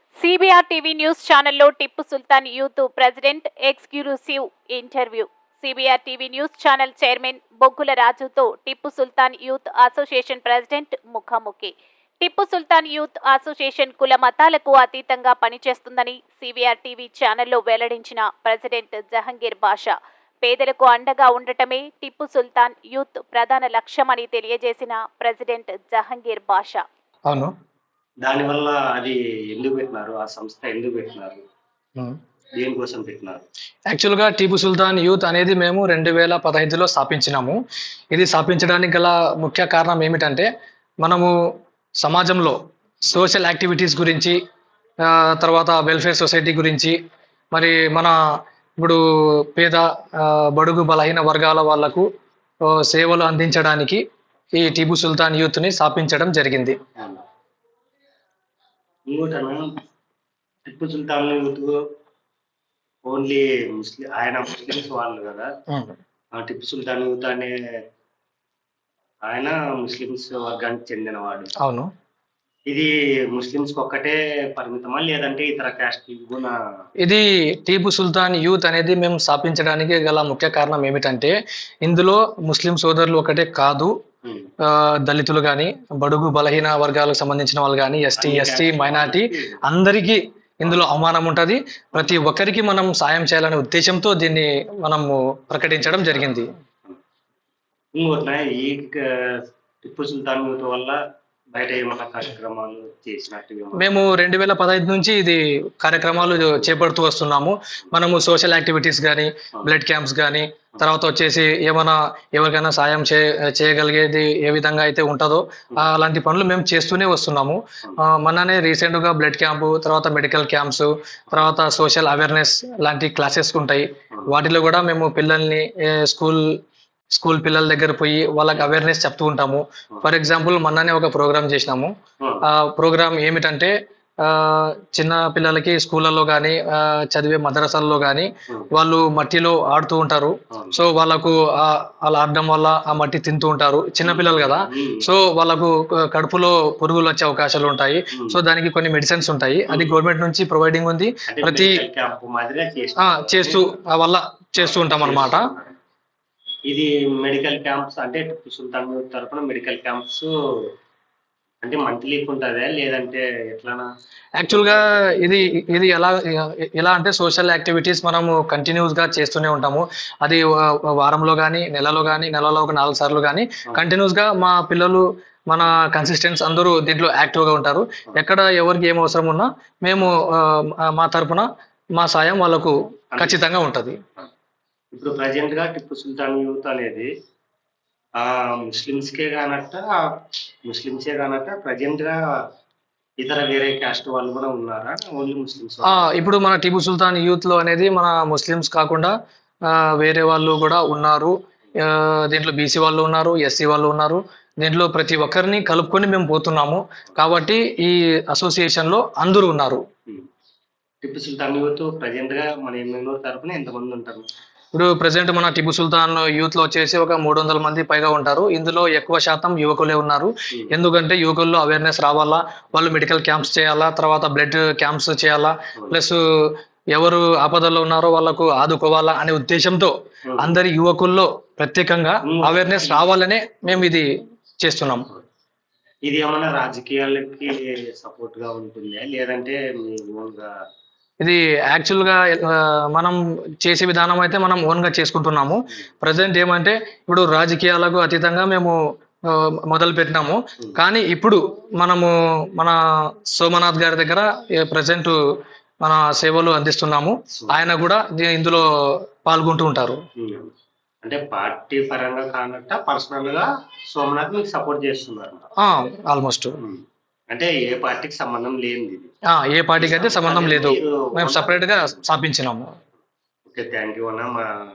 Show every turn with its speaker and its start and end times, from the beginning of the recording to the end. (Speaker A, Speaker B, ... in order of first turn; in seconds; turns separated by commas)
Speaker A: 0.2-26.8, Speaker B: 28.2-31.4, Speaker B: 32.5-33.4, Speaker C: 33.9-37.6, Speaker C: 38.1-40.5, Speaker C: 41.0-41.3, Speaker C: 42.0-42.5, Speaker C: 43.1-44.4, Speaker C: 45.0-46.9, Speaker C: 47.5-48.1, Speaker C: 49.5-52.1, Speaker C: 52.7-54.0, Speaker C: 54.5-56.8, Speaker B: 57.0-57.2, Speaker B: 59.1-59.7, Speaker B: 60.6-61.7, Speaker B: 63.0-65.5, Speaker B: 66.3-67.5, Speaker B: 69.2-71.5, Speaker C: 71.6-71.9, Speaker B: 72.7-76.6, Speaker C: 77.0-81.3, Speaker C: 81.8-83.9, Speaker B: 84.2-84.5, Speaker C: 84.6-96.5, Speaker B: 88.2-89.6, Speaker B: 96.2-97.0, Speaker B: 97.9-101.0, Speaker B: 101.5-103.9, Speaker C: 103.7-126.5, Speaker B: 106.4-106.8, Speaker C: 127.1-131.9, Speaker C: 132.5-133.7, Speaker C: 134.2-151.8, Speaker B: 140.5-140.8, Speaker B: 144.0-145.1, Speaker B: 148.1-148.4, Speaker B: 149.7-150.0, Speaker B: 151.3-153.8, Speaker C: 153.0-155.5, Speaker B: 154.6-155.8, Speaker B: 156.7-160.3, Speaker B: 161.6-163.9, Speaker C: 164.4-184.0, Speaker B: 164.5-165.3, Speaker B: 183.2-183.4, Speaker B: 184.9-187.1, Speaker B: 188.2-190.0, Speaker B: 190.7-192.2, Speaker B: 193.2-196.1, Speaker C: 195.8-199.1, Speaker C: 199.7-209.8, Speaker B: 211.0-214.2, Speaker C: 214.7-226.2, Speaker C: 226.9-234.1, Speaker B: 230.3-230.6, Speaker B: 232.2-233.1, Speaker C: 234.6-235.1, Speaker B: 236.0-240.5, Speaker C: 241.2-248.7, Speaker C: 249.3-252.8, Speaker C: 253.3-255.2, Speaker C: 255.8-258.7, Speaker B: 257.3-257.7, Speaker C: 259.2-260.0, Speaker B: 260.2-260.5, Speaker B: 261.0-265.4, Speaker C: 265.6-266.6, Speaker B: 266.6-269.1, Speaker C: 269.3-272.7, Speaker B: 269.8-272.0, Speaker B: 273.5-274.4